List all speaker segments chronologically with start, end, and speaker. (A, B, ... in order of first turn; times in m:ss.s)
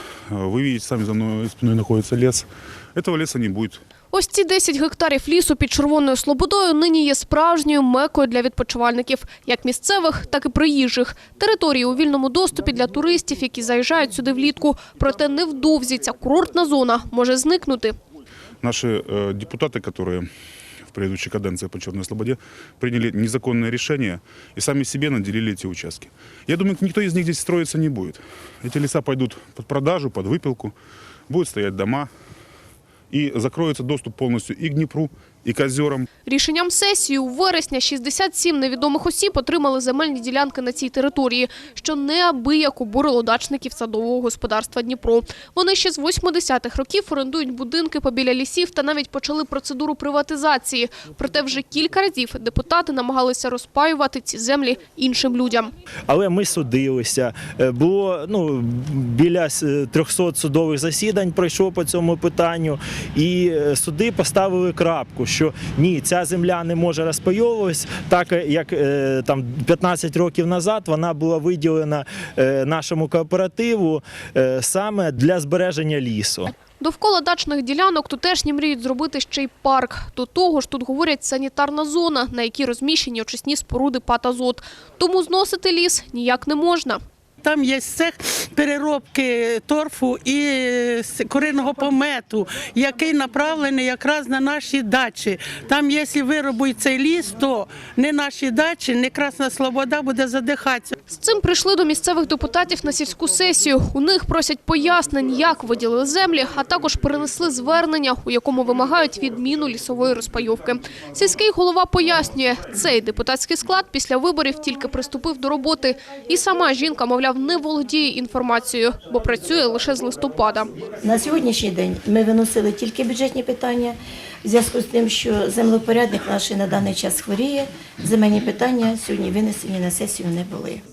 0:00.3-0:03.8 A
0:04.1-0:18.0 B
0:18.6-0:20.3 A
0:20.9-0:30.7 A
0:31.3-0:32.1 A
0:33.1-0:36.1 A
0:36.3-0:55.7 B
0:56.1-1:16.6 C
1:16.8-1:27.0 B
1:27.4-1:40.9 D
1:41.2-2:00.7 B
2:01.0-2:10.8 E